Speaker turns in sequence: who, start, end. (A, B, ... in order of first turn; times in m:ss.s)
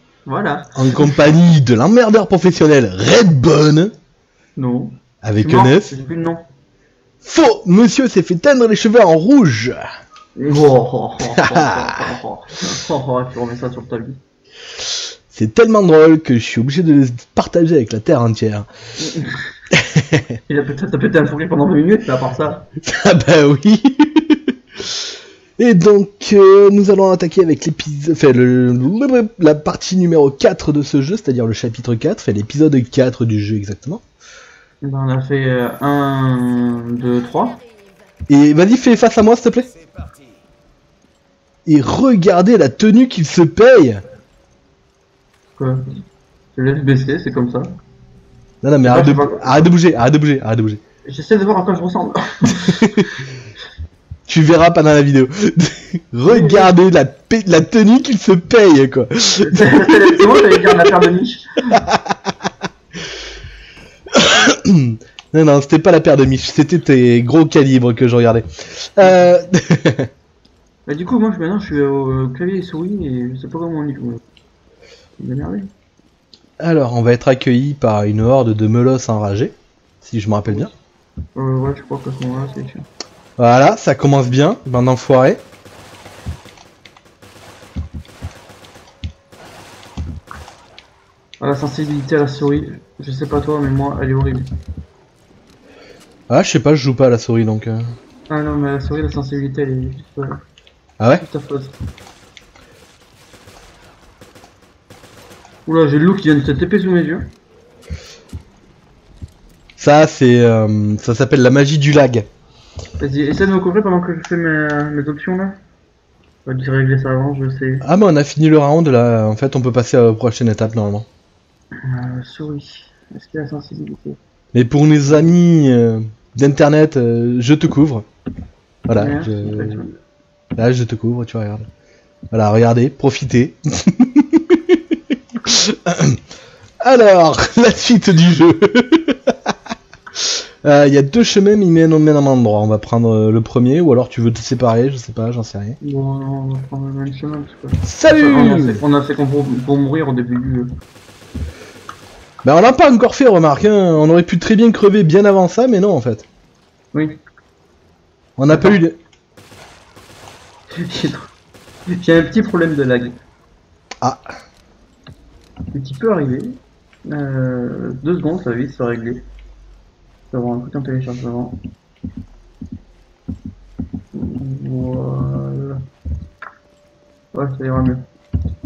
0:00.2-0:01.2 A
0:00.8-0:03.9 B
0:04.6-0:06.4 A
0:05.2-0:05.9 B
0:07.2-0:09.8 B
0:10.4-0:14.2 A
0:11.3-0:12.1 B
0:14.9-0:18.7 B
0:19.0-0:19.5 A
0:19.7-0:20.4 B
0:20.5-0:22.7 A
0:22.8-0:25.0 B
0:25.6-0:34.0 B
0:34.8-0:37.6 A
0:38.3-0:39.7 B
0:41.6-0:44.0 B
0:45.6-0:47.7 A
0:48.6-0:50.8 B
0:48.8-0:49.7 A
0:51.0-0:53.0 A
0:52.5-0:53.1 B
0:54.3-1:00.9 B
0:56.2-0:56.7 A
0:59.4-1:01.8 A
1:01.7-1:02.3 B
1:04.1-1:10.1 B
1:10.8-1:14.2 A
1:15.2-1:15.7 A
1:16.6-1:20.7 B
1:21.4-1:22.9 A
1:23.4-1:25.4 B
1:31.4-1:34.5 A
1:36.3-1:37.9 B
1:38.3-1:40.4 A
1:41.0-1:41.2 B
1:41.2-1:41.8 A
1:45.6-1:47.3 A
1:49.8-1:52.3 B
1:53.0-1:55.6 A
1:56.4-1:57.8 A
1:57.8-2:01.1 B
2:01.8-2:04.2 A
2:04.5-2:08.0 B
2:08.9-2:09.8 B
2:09.0-2:10.0 A
2:10.6-2:11.7 B
2:12.3-2:16.2 B
2:16.8-2:19.5 B
2:20.1-2:25.8 B
2:25.8-2:30.7 A
2:27.8-2:28.8 B
2:32.4-2:36.3 B
2:36.9-2:37.2 A
2:38.4-2:39.0 B
2:38.5-2:38.8 A
2:40.7-2:41.3 A
2:41.9-2:43.2 A
2:45.7-2:49.2 A
2:50.3-2:51.6 A
2:54.1-2:55.8 A
2:57.3-2:58.0 A